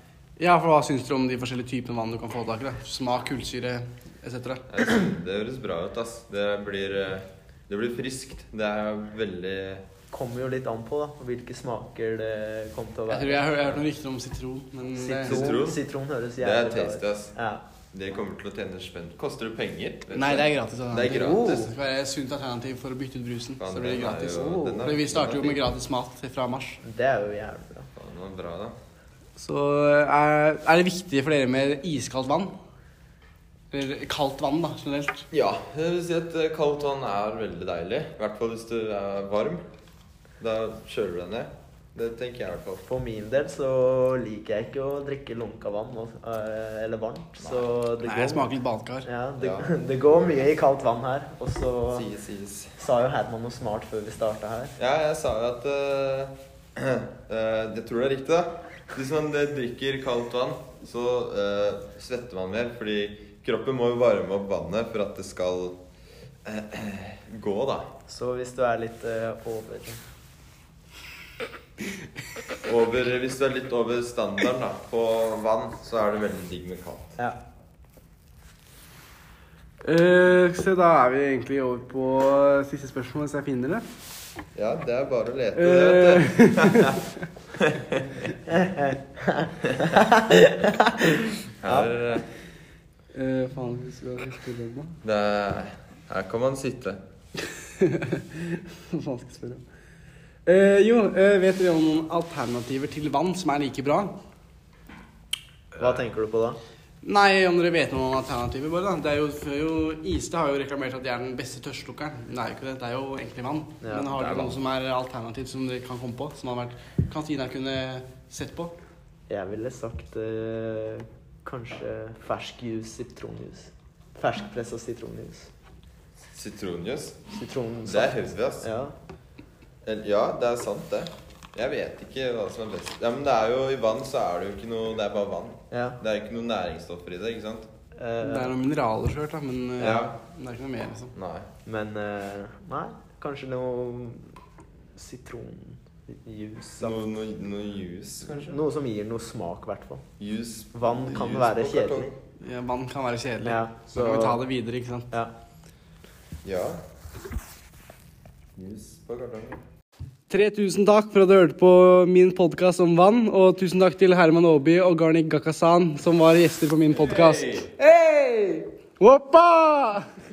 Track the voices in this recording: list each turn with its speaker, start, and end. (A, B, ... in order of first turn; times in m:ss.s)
0:00.4-0:04.6 A
0:04.7-0:09.8 B
0:10.1-0:13.8 C
0:13.1-0:15.4 A
0:15.0-0:17.6 C
0:15.2-0:15.8 B
0:16.4-0:17.3 B
0:17.9-0:21.5 B
0:20.1-0:26.8 A
0:21.1-0:21.7 C
0:23.6-0:25.6 B
0:26.8-0:27.9 C
0:28.0-0:28.8 B
0:29.4-0:32.5 A
0:33.7-0:35.2 A
0:35.3-0:39.6 B
0:40.4-0:42.8 B
0:42.9-0:48.5 C
0:48.0-0:49.1 A
0:49.1-0:52.1 C
0:49.4-0:49.7 B
0:51.9-0:52.8 B
0:52.8-0:54.8 C
0:54.8-1:05.8 B
1:06.5-1:07.9 B
1:08.1-1:10.0 C
1:12.6-1:17.2 B
1:19.8-1:23.8 A
1:24.6-1:27.0 B
1:25.6-1:27.1 A
1:27.6-1:28.0 B
1:28.5-1:31.9 C
1:31.6-1:32.3 B
1:33.1-1:35.0 A
1:35.0-1:37.0 B
1:37.8-1:39.6 A
1:40.5-1:44.2 A
1:45.8-1:46.6 C
1:47.0-1:58.8 A
1:53.8-1:54.1 C
1:54.1-1:54.6 B
1:59.3-2:05.5 C
2:06.3-2:07.2 B
2:07.3-2:08.9 C
2:07.8-2:08.7 B
2:09.8-2:17.7 B
2:15.7-2:16.0 C
2:18.0-2:18.6 C
2:18.2-2:21.1 A
2:19.8-2:20.0 C
2:19.8-2:20.2 B
2:21.2-2:21.5 B
2:21.7-2:24.3 C
2:25.0-2:27.0 C
2:26.8-2:28.6 B
2:28.3-2:30.0 C
2:30.2-2:32.2 B
2:30.7-2:32.1 C
2:32.4-2:35.1 A
2:33.4-2:34.4 C
2:36.4-2:36.8 B
2:38.6-2:39.6 B
2:40.3-2:50.1 A
2:46.9-2:47.7 B